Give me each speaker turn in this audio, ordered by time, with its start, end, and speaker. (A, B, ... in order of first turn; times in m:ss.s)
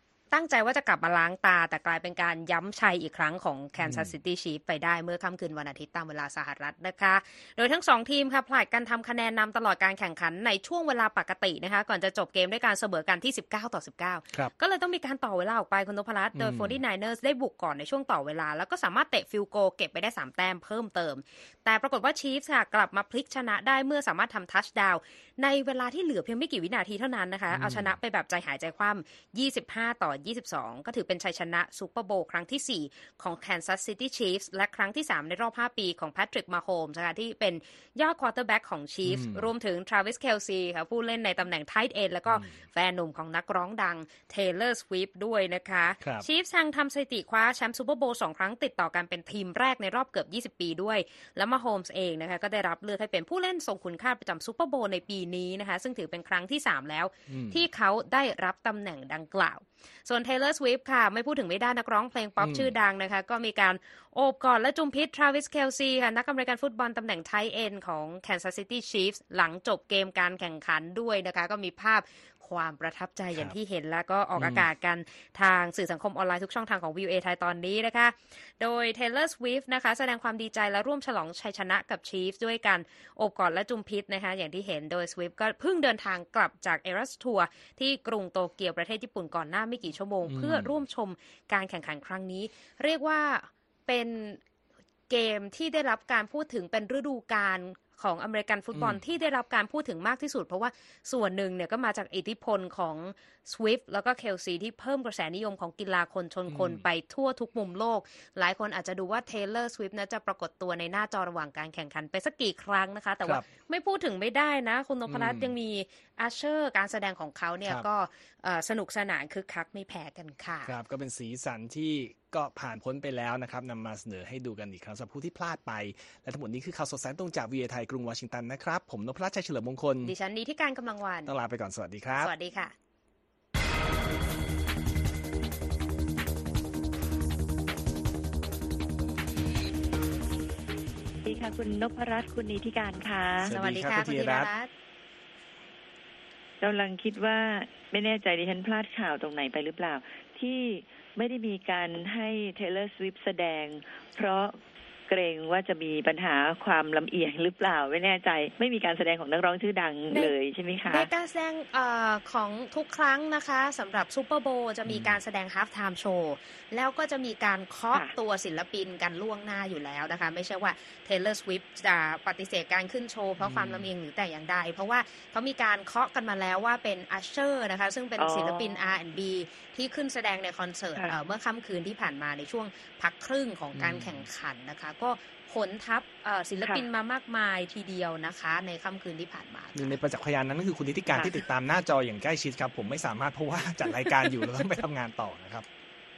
0:00.3-1:34.4 A
0:03.8-0:04.1 B
0:16.3-0:16.8 B
0:27.5-0:27.9 B
0:39.0-0:39.5 B
0:46.0-0:46.2 B
0:57.3-0:57.6 B
1:02.4-1:02.7 B
1:14.4-1:14.6 B
1:30.2-1:30.7 B
1:35.1-2:00.7 A
1:38.7-1:39.0 B
1:46.5-1:46.8 B
1:55.1-1:55.5 B
2:00.6-2:10.1 B
2:10.0-2:11.3 A
2:11.2-2:12.3 B
2:12.2-2:12.7 A
2:21.2-2:23.5 C
2:23.4-2:24.5 B
2:23.4-2:24.7 A
2:26.6-2:34.6 C
2:35.1-2:41.1 C
2:40.9-3:10.0 A
2:44.9-2:45.2 B
2:53.4-2:53.9 B
2:58.2-2:59.0 C
3:03.7-3:04.3 B
3:09.7-3:15.7 B
3:11.1-3:11.4 A